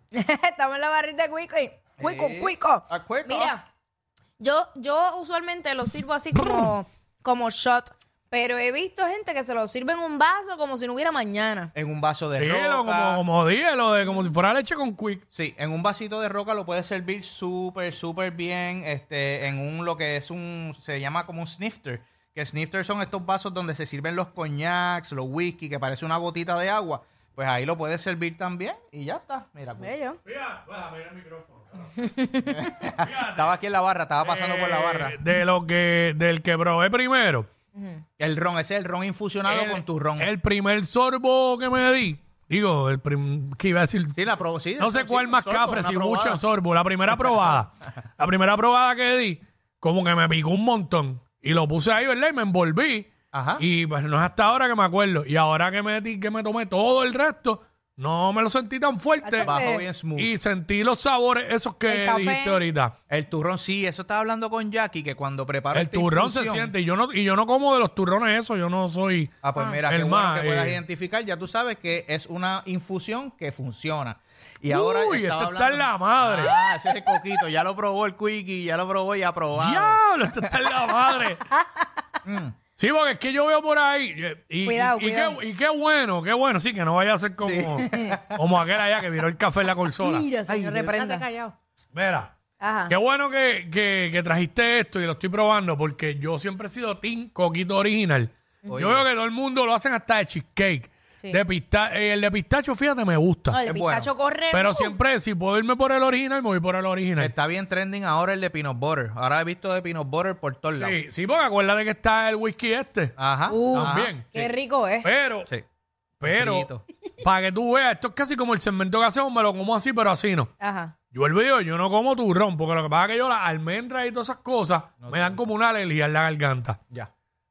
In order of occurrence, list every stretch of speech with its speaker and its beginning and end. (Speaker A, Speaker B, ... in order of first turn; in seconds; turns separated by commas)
Speaker A: 0.1-3.6, Speaker B: 2.0-3.5, Speaker A: 4.4-11.7, Speaker B: 11.7-13.2, Speaker C: 12.4-15.2, Speaker B: 15.3-29.9, Speaker A: 29.8-30.2, Speaker C: 30.2-31.9, Speaker A: 32.0-32.6, Speaker B: 32.5-35.2, Speaker C: 32.9-33.5, Speaker C: 34.2-37.5, Speaker A: 37.8-38.0, Speaker B: 38.2-40.3, Speaker C: 39.4-44.2, Speaker B: 44.1-46.4, Speaker C: 44.8-59.6, Speaker B: 53.3-53.6, Speaker A: 59.2-59.8, Speaker B: 59.4-60.4, Speaker C: 60.2-62.9, Speaker A: 61.9-62.6, Speaker B: 63.1-66.7, Speaker C: 65.7-69.3, Speaker B: 69.4-80.7, Speaker C: 69.9-70.8, Speaker C: 74.7-76.5, Speaker C: 79.5-81.4, Speaker B: 82.2-82.5, Speaker C: 82.8-90.2, Speaker A: 84.6-85.4, Speaker B: 87.4-88.4, Speaker A: 87.8-88.2, Speaker A: 90.0-91.2, Speaker B: 90.5-91.5, Speaker C: 91.9-92.3, Speaker A: 92.6-92.9, Speaker C: 92.9-103.6, Speaker B: 98.7-99.1, Speaker A: 103.5-105.0, Speaker B: 103.7-104.1, Speaker C: 104.5-107.3, Speaker B: 107.2-111.0, Speaker C: 110.7-113.1, Speaker B: 113.2-114.5, Speaker A: 113.5-115.1, Speaker C: 113.7-114.3, Speaker C: 115.0-115.5, Speaker C: 116.2-116.7, Speaker B: 116.2-116.8, Speaker C: 117.2-120.5, Speaker A: 120.6-120.9, Speaker C: 121.1-126.8, Speaker B: 125.0-125.4